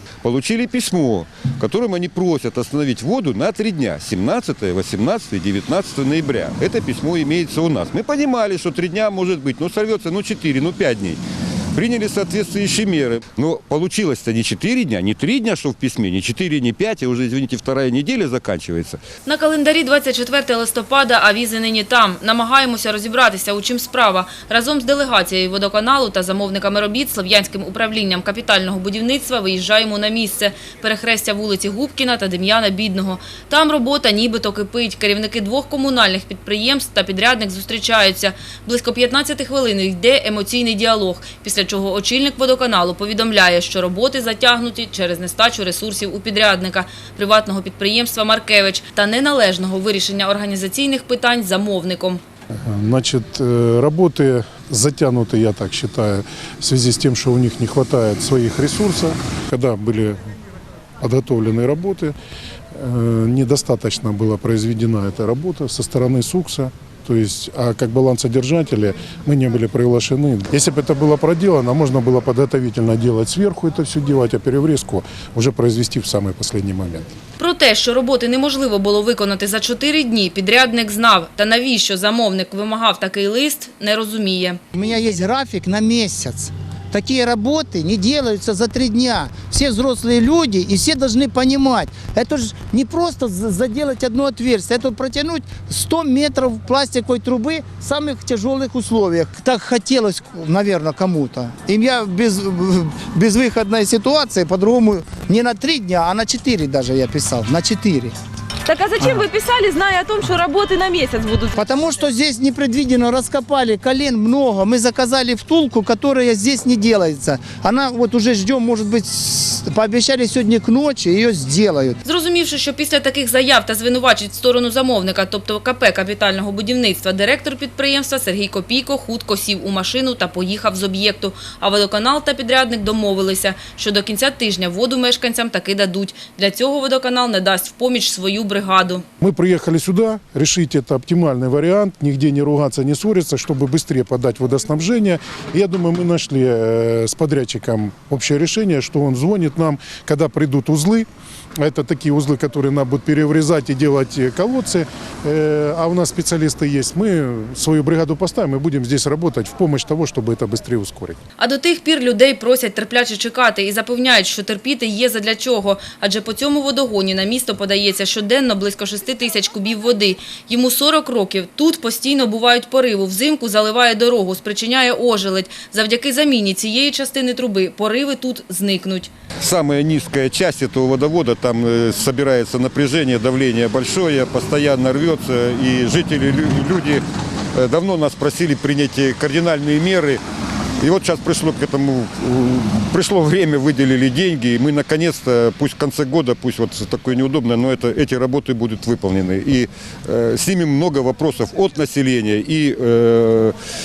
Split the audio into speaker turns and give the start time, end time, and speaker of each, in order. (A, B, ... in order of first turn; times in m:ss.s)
0:00.2-0:11.2 A
0:11.7-0:19.0 A
0:19.2-0:52.2 B
0:52.6-1:00.2 C
1:01.0-1:02.1 C
1:02.7-1:17.1 C
1:17.4-1:24.6 B
1:24.7-1:48.1 D
1:48.6-1:51.5 E
1:51.5-2:02.0 D
2:02.0-2:19.0 B
2:19.2-2:31.1 C
2:31.6-2:41.2 C
2:41.4-2:59.1 B
2:59.4-3:07.0 A
3:07.5-3:10.2 A
3:10.8-3:23.5 A